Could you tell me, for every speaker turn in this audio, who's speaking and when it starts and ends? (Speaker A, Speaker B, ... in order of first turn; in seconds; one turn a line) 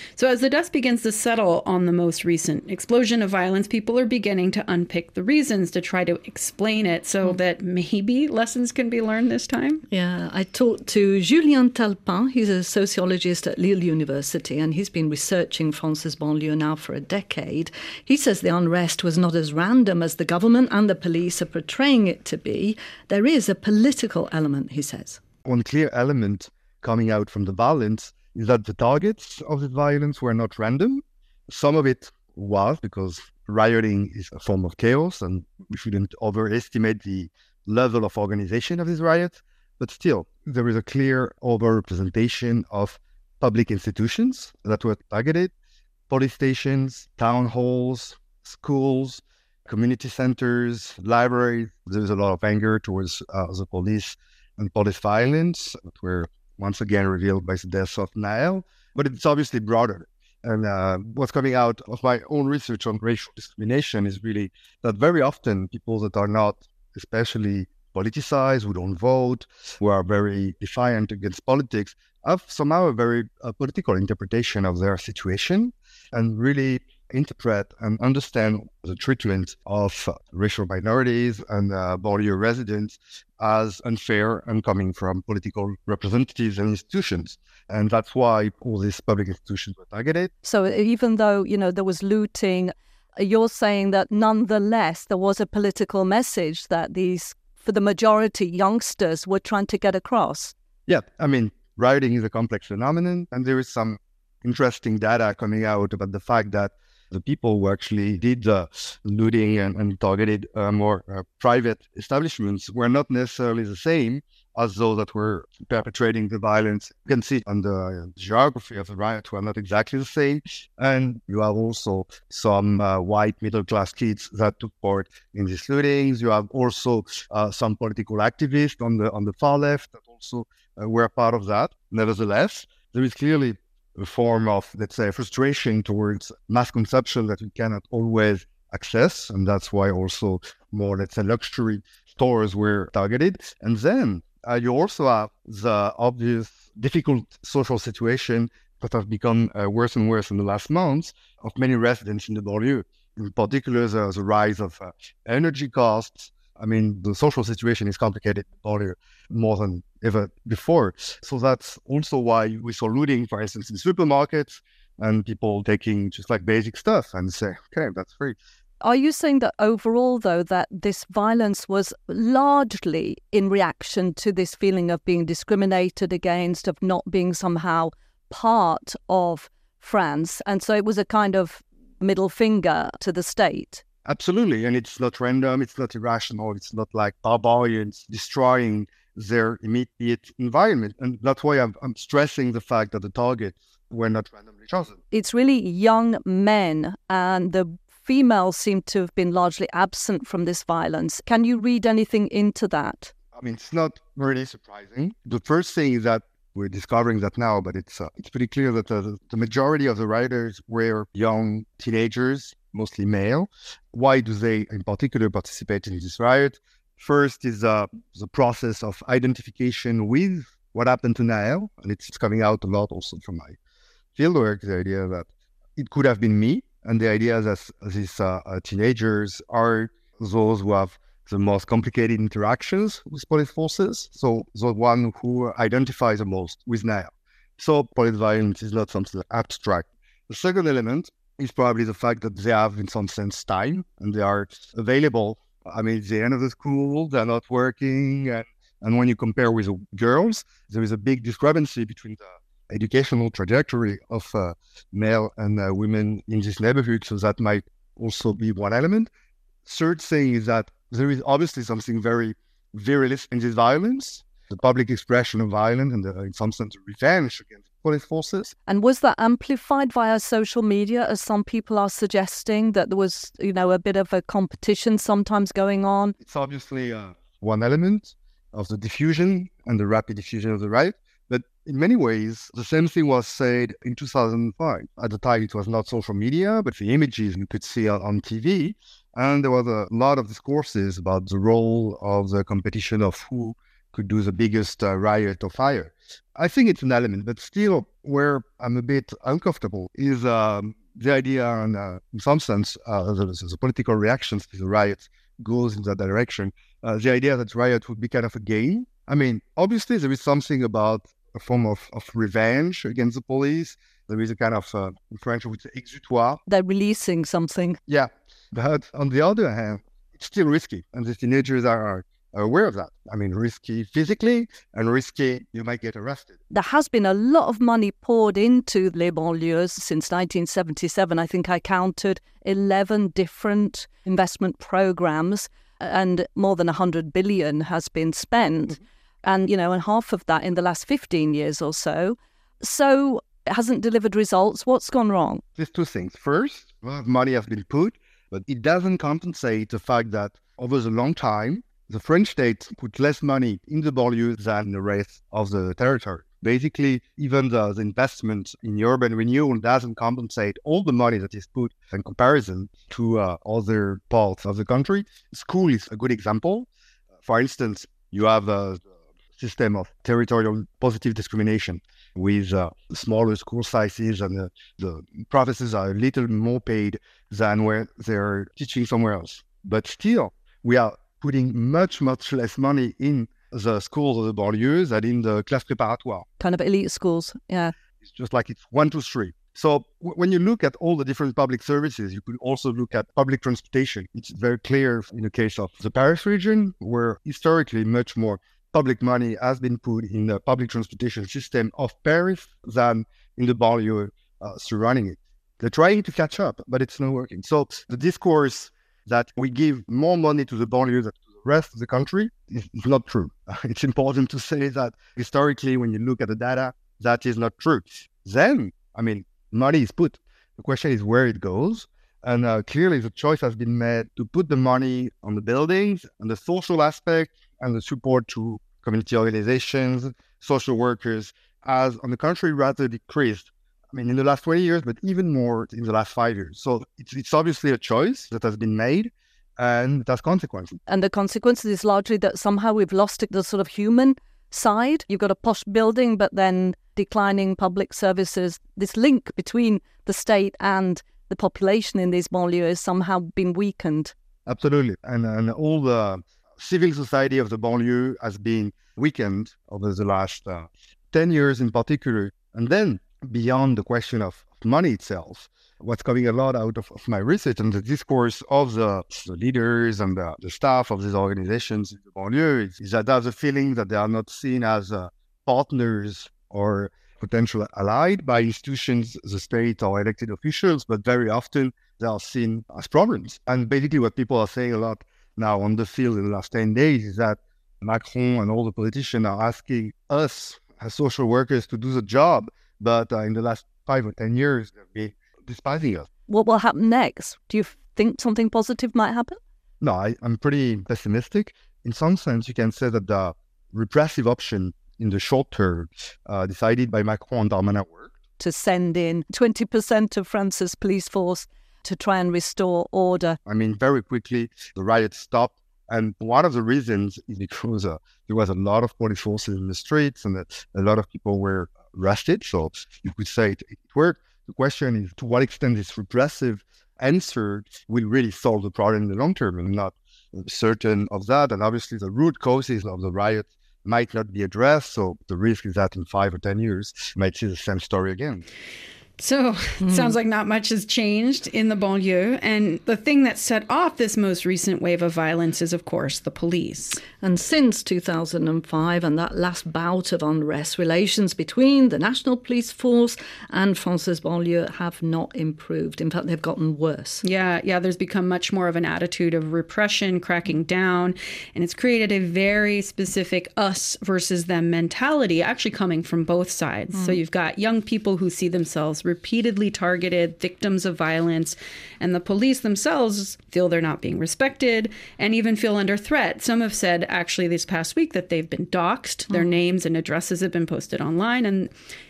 Speaker A: 0.2-9.8
Speaker B: 9.9-25.2
Speaker C: 25.4-45.5
Speaker C: 46.1-90.3
Speaker B: 90.4-100.5
Speaker C: 100.9-168.4
Speaker B: 168.8-183.8
Speaker C: 184.1-195.0
Speaker B: 195.1-203.1
Speaker C: 203.3-223.6
Speaker C: 224.2-259.1
Speaker C: 259.6-268.6
Speaker B: 268.7-276.2
Speaker C: 276.2-316.4
Speaker B: 316.5-317.8
Speaker C: 317.9-326.4
Speaker B: 326.5-345.4
Speaker C: 345.6-366.7
Speaker C: 367.2-368.8
Speaker C: 369.4-386.3
Speaker B: 386.4-387.7
Speaker C: 388.0-440.8
Speaker B: 440.9-454.1
Speaker C: 454.5-496.1
Speaker B: 496.3-499.4
Speaker C: 499.8-508.1
Speaker B: 508.4-513.4
Speaker C: 513.5-538.4
Speaker A: 539.2-547.0
Speaker B: 539.8-540.1
Speaker B: 547.2-557.2
Speaker A: 557.2-581.7
Speaker B: 567.0-567.2